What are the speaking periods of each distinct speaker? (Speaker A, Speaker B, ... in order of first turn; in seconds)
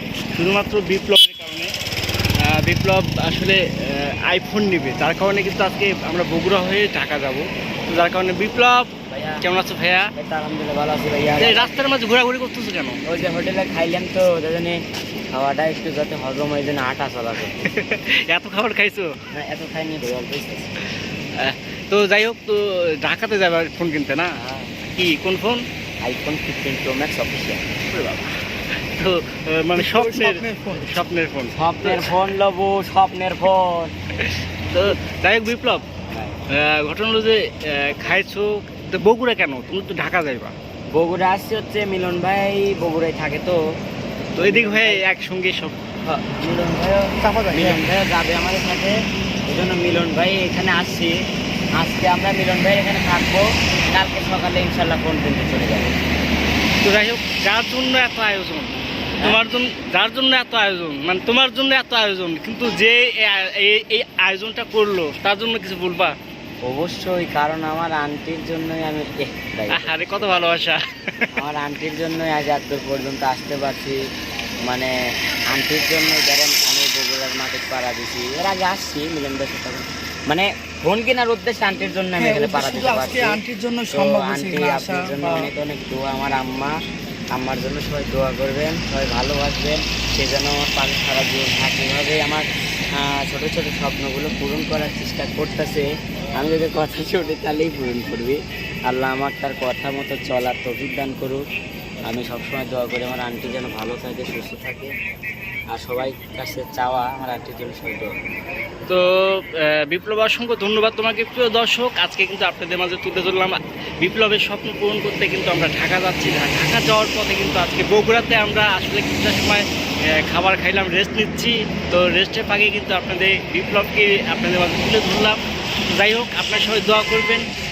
Speaker A: 0.3-1.7, 2.4-10.1, 11.4-13.0, 17.6-19.1, 20.8-25.6, 27.9-32.1, 34.2-35.8, 36.5-40.5, 44.4-45.8, 56.8-66.1, 69.7-71.3, 108.9-127.5
Speaker B: 9.1-9.4, 10.2-11.8, 13.1-14.8, 15.3-17.7, 19.3-20.7, 24.4-24.7, 26.0-27.6, 31.5-33.9, 36.1-36.4, 40.9-43.6, 44.3-45.1, 46.0-48.9, 49.5-51.2, 51.8-56.0, 66.6-70.6, 71.3-74.0, 74.7-74.9, 75.5-83.4, 83.9-86.8, 87.3-101.4, 102.0-104.9, 105.7-108.2
Speaker C: 29.8-30.9, 47.2-47.8, 82.2-85.5